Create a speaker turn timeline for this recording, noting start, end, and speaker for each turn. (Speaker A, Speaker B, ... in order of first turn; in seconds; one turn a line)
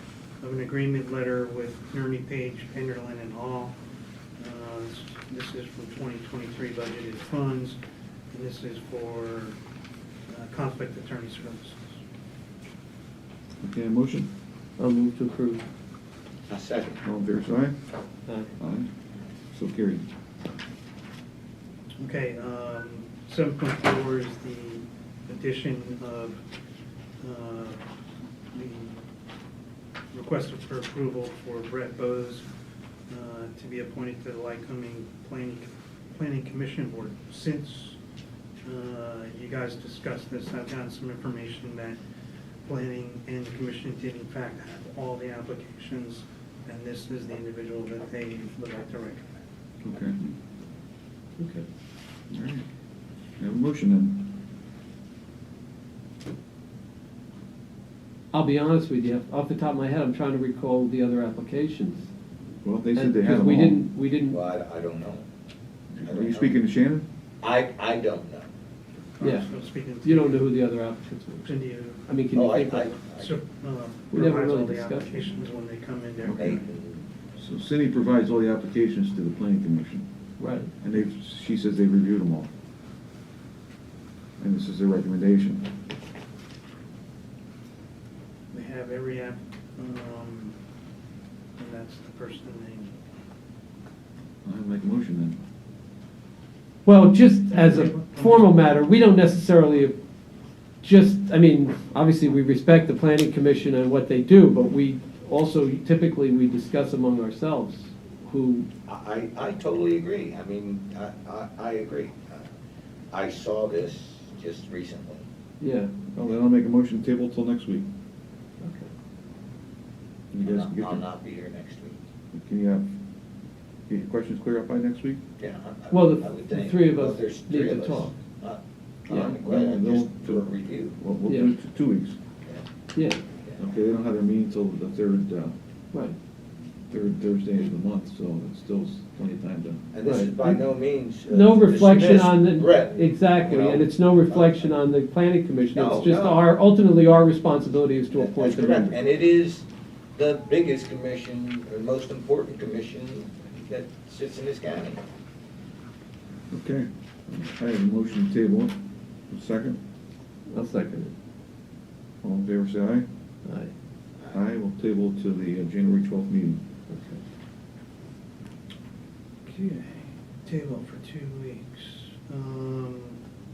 Speaker A: 0.4-3.8
Speaker A: 4.4-7.8
Speaker A: 8.3-9.6
Speaker A: 10.3-12.0
Speaker B: 13.6-14.3
Speaker C: 14.8-15.7
Speaker D: 16.5-17.0
Speaker B: 17.0-17.8
Speaker C: 18.3-18.5
Speaker B: 18.6-18.9
Speaker B: 19.5-20.1
Speaker A: 22.0-26.4
Speaker A: 27.2-27.8
Speaker A: 28.5-29.0
Speaker A: 30.1-32.5
Speaker A: 33.1-38.0
Speaker A: 38.6-42.0
Speaker A: 42.7-49.3
Speaker B: 49.8-50.3
Speaker C: 51.4-51.7
Speaker B: 52.3-52.6
Speaker B: 53.4-54.3
Speaker C: 58.3-62.1
Speaker B: 62.6-63.8
Speaker C: 63.0-64.4
Speaker D: 64.3-65.2
Speaker B: 65.9-67.1
Speaker D: 66.0-66.6
Speaker D: 67.4-68.5
Speaker A: 69.2-70.5
Speaker C: 69.2-69.5
Speaker C: 70.0-71.5
Speaker A: 71.4-72.1
Speaker C: 72.1-73.0
Speaker D: 72.3-73.4
Speaker A: 73.1-76.6
Speaker C: 74.1-75.2
Speaker B: 76.2-76.6
Speaker D: 76.4-77.0
Speaker B: 77.4-80.1
Speaker C: 80.4-80.7
Speaker B: 80.8-82.5
Speaker B: 84.4-85.7
Speaker A: 88.5-90.6
Speaker A: 91.6-93.0
Speaker B: 94.4-95.4
Speaker C: 96.8-100.0
Speaker A: 97.5-98.5
Speaker C: 100.8-108.7
Speaker D: 108.8-112.5
Speaker D: 113.1-115.2
Speaker C: 115.6-115.9
Speaker B: 116.1-117.9
Speaker C: 118.6-118.9
Speaker B: 120.3-121.0
Speaker D: 120.4-122.0
Speaker B: 122.3-122.9
Speaker B: 123.9-125.2
Speaker D: 125.4-131.0
Speaker C: 125.9-128.2
Speaker B: 129.1-132.2
Speaker C: 132.9-133.2
Speaker B: 133.6-135.6
Speaker B: 136.9-139.9
Speaker D: 139.9-144.7
Speaker C: 140.0-140.3
Speaker C: 141.3-148.9
Speaker D: 145.7-146.5
Speaker D: 148.1-155.0
Speaker B: 156.5-158.8
Speaker B: 159.3-159.8
Speaker C: 160.5-161.1
Speaker B: 162.2-163.1
Speaker C: 163.4-163.7
Speaker B: 164.3-166.6
Speaker C: 166.9-167.2
Speaker A: 169.5-173.2